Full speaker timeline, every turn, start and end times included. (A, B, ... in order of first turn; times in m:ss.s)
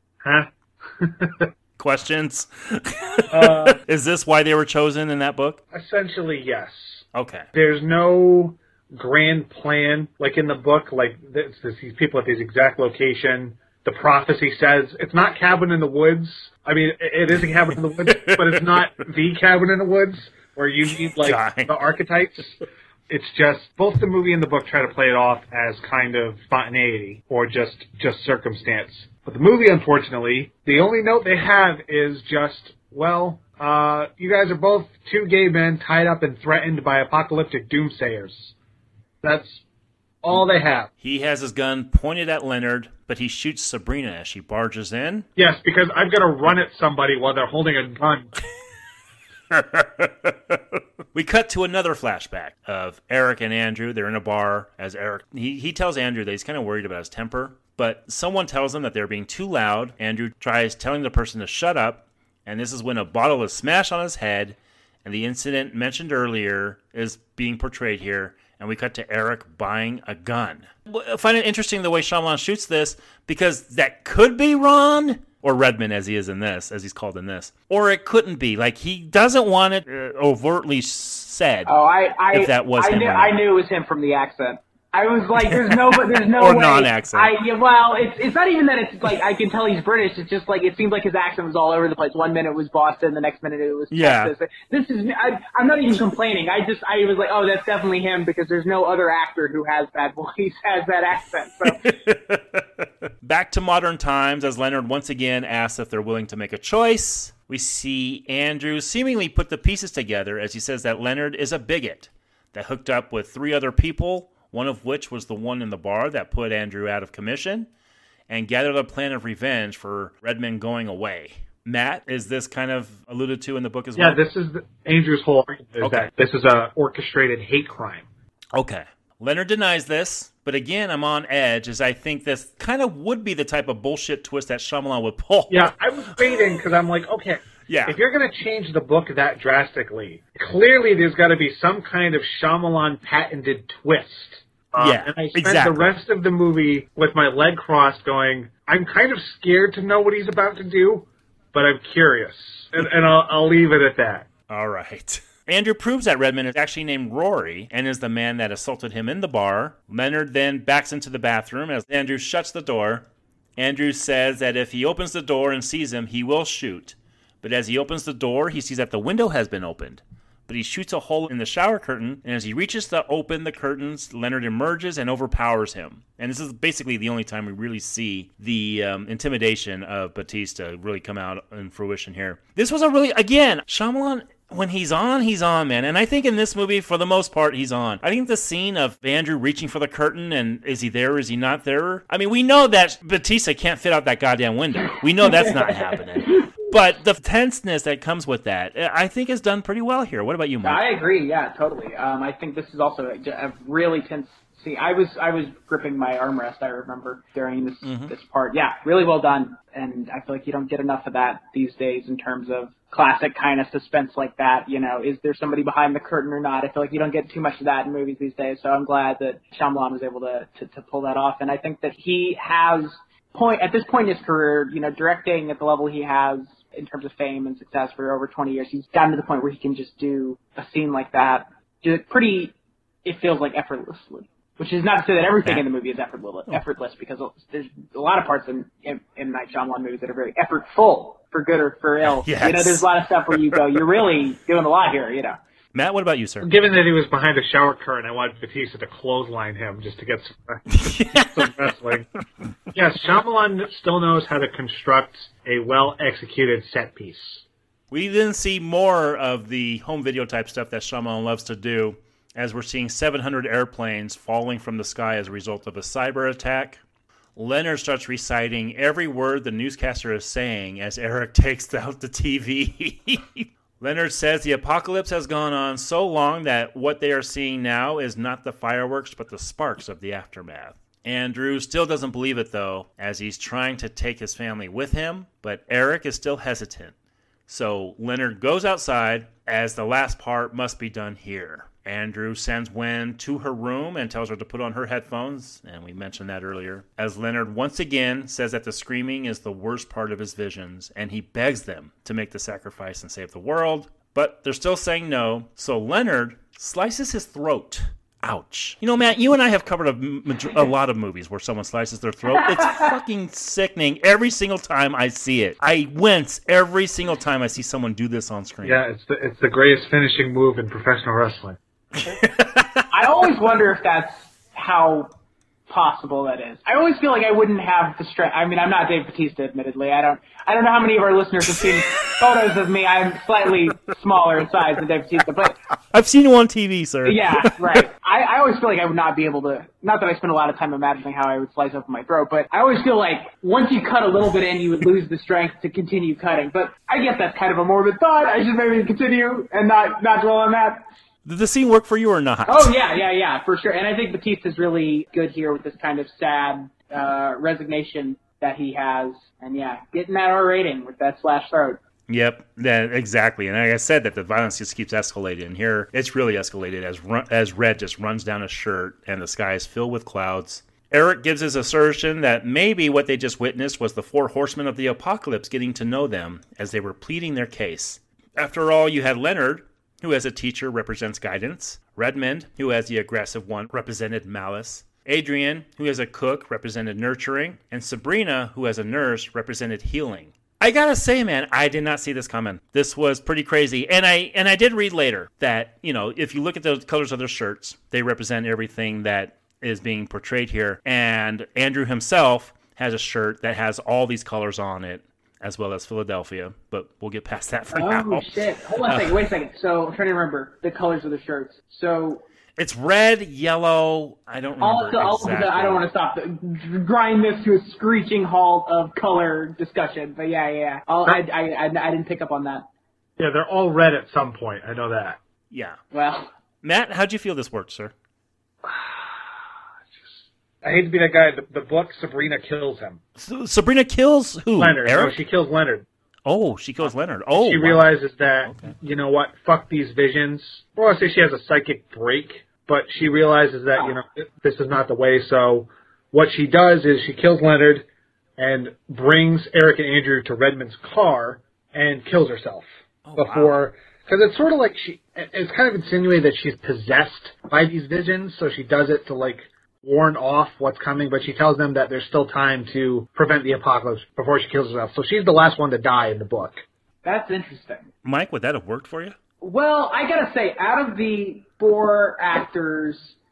0:00.2-0:01.5 A
0:01.8-0:05.6 B
0:03.3-0:03.8 A
0:05.7-0:38.6 A
0:07.2-0:07.5 B
0:18.1-0:18.8 B
0:21.2-0:21.7 B
0:39.2-0:39.6 A
0:40.2-0:40.9 A
0:41.0-0:45.3 B
0:45.4-0:48.3 A
0:49.5-1:21.7 B
1:21.7-1:41.8 C
1:22.3-1:23.4 B
1:25.4-1:27.3 B
1:33.9-1:34.3 B
1:41.7-1:57.7 B
1:58.3-2:04.2 B
2:04.0-2:08.1 A
2:05.8-2:06.1 B
2:08.5-2:15.8 B
2:15.5-2:34.3 A
2:17.7-2:18.0 B
2:24.8-2:25.9 B
2:34.5-2:43.1 B
2:43.6-3:20.8 B
3:15.2-3:16.5 C
3:20.6-3:52.5 C
3:27.8-3:28.1 B
3:53.0-4:05.4 C
4:02.1-4:03.6 B
4:05.7-4:06.5 B
4:06.4-4:12.1 A
4:10.7-4:11.5 B
4:12.7-4:17.4 A
4:17.9-4:26.8 B
4:27.4-4:46.9 B
4:47.5-5:18.8 B
5:12.4-5:12.9 C
5:18.6-5:21.6 A
5:22.0-5:22.8 B
5:22.9-5:25.1 C
5:25.7-5:35.6 C
5:31.6-5:32.2 B
5:35.9-5:37.8 B
5:37.0-5:50.9 C
5:51.2-5:52.7 B
5:52.5-6:01.8 C
6:02.1-6:48.3 B
6:47.7-6:52.2 C
6:48.8-6:49.2 B
6:52.6-6:55.8 B
6:54.6-7:02.7 C
7:03.2-7:05.2 A
7:05.5-7:05.8 B
7:05.9-7:06.3 C
7:06.6-7:07.9 B
7:08.6-7:09.4 A
7:09.9-7:13.0 A
7:13.2-7:15.2 B
7:14.6-7:15.9 A
7:16.3-7:17.9 B
7:17.3-7:46.6 A
7:18.4-7:18.8 B
7:33.1-7:33.6 B
7:47.0-7:47.9 C
7:48.0-7:49.2 B
7:49.4-7:53.2 C